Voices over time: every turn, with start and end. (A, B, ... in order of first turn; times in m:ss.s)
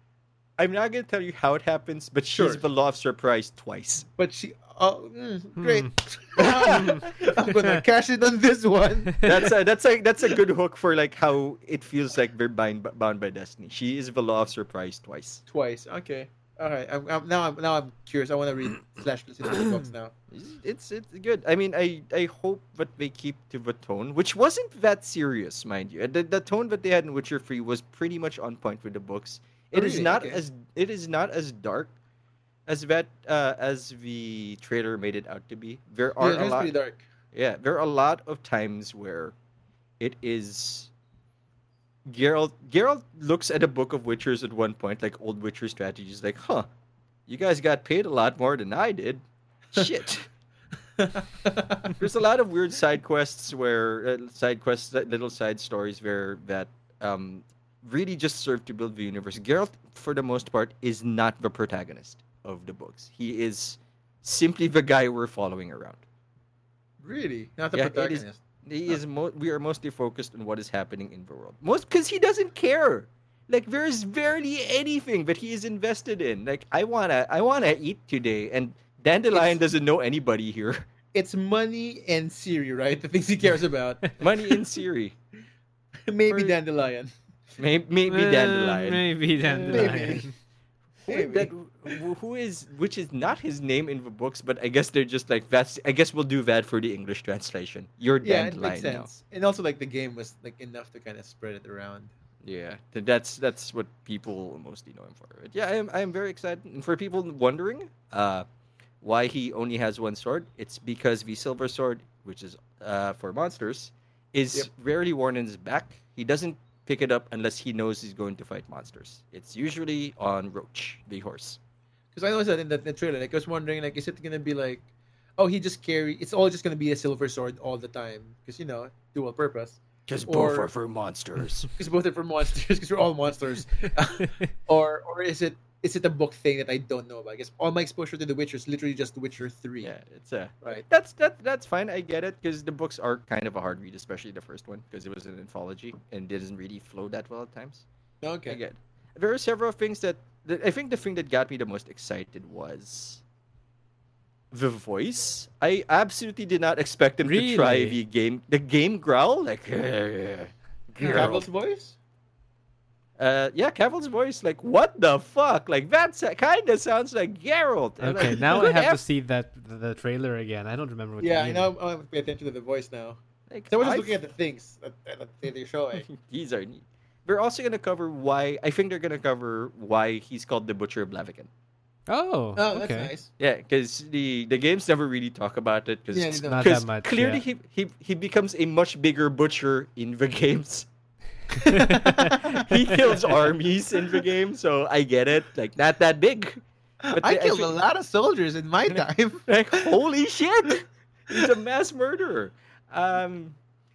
0:00.6-0:04.1 A
0:02.3-0:02.6 B
0:04.2-0:09.5 B
0:05.6-0:05.9 C
0:06.4-0:07.1 A
0:09.2-0:15.4 A
0:15.5-0:20.1 B
0:20.3-0:31.9 A
0:29.7-0:30.4 B
0:32.7-0:36.7 A
0:36.2-0:37.0 B
0:37.3-0:39.3 A
0:40.0-0:40.9 A
0:42.1-0:46.7 A
0:47.3-0:50.3 A
0:51.0-0:51.9 B
0:51.8-1:06.0 A
1:07.0-1:08.4 B
1:07.7-1:20.8 A
1:19.3-1:19.6 B
1:21.1-1:24.0 B
1:24.2-1:25.1 A
1:26.1-1:27.1 B
1:27.6-1:30.2 A
1:28.1-1:30.3 C
1:29.6-1:30.3 B
1:31.1-1:31.5 B
1:31.1-1:39.1 A
1:38.2-1:42.1 B
1:42.4-1:48.4 A
1:49.0-2:01.6 A
2:02.1-2:04.8 B
2:05.4-2:10.7 B
2:10.1-2:11.7 A
2:11.7-2:19.9 B
2:19.8-2:27.8 A
2:28.2-2:28.6 B
2:28.5-2:33.2 A
2:34.5-2:41.4 A
2:37.2-2:38.0 C
2:41.0-2:42.0 B
2:43.2-2:49.0 A
2:48.0-2:51.7 C
2:48.2-2:48.6 B
2:51.2-2:53.2 B
2:53.5-2:54.1 A
2:53.7-2:56.1 B
2:56.1-3:01.5 A
3:02.1-3:03.1 C
3:02.6-3:03.3 B
3:03.4-3:10.9 A
3:06.1-3:06.8 B
3:06.4-3:07.4 C
3:11.6-3:12.7 C
3:11.6-3:12.7 B
3:12.5-3:17.7 A
3:17.1-3:19.9 B
3:18.9-3:23.6 A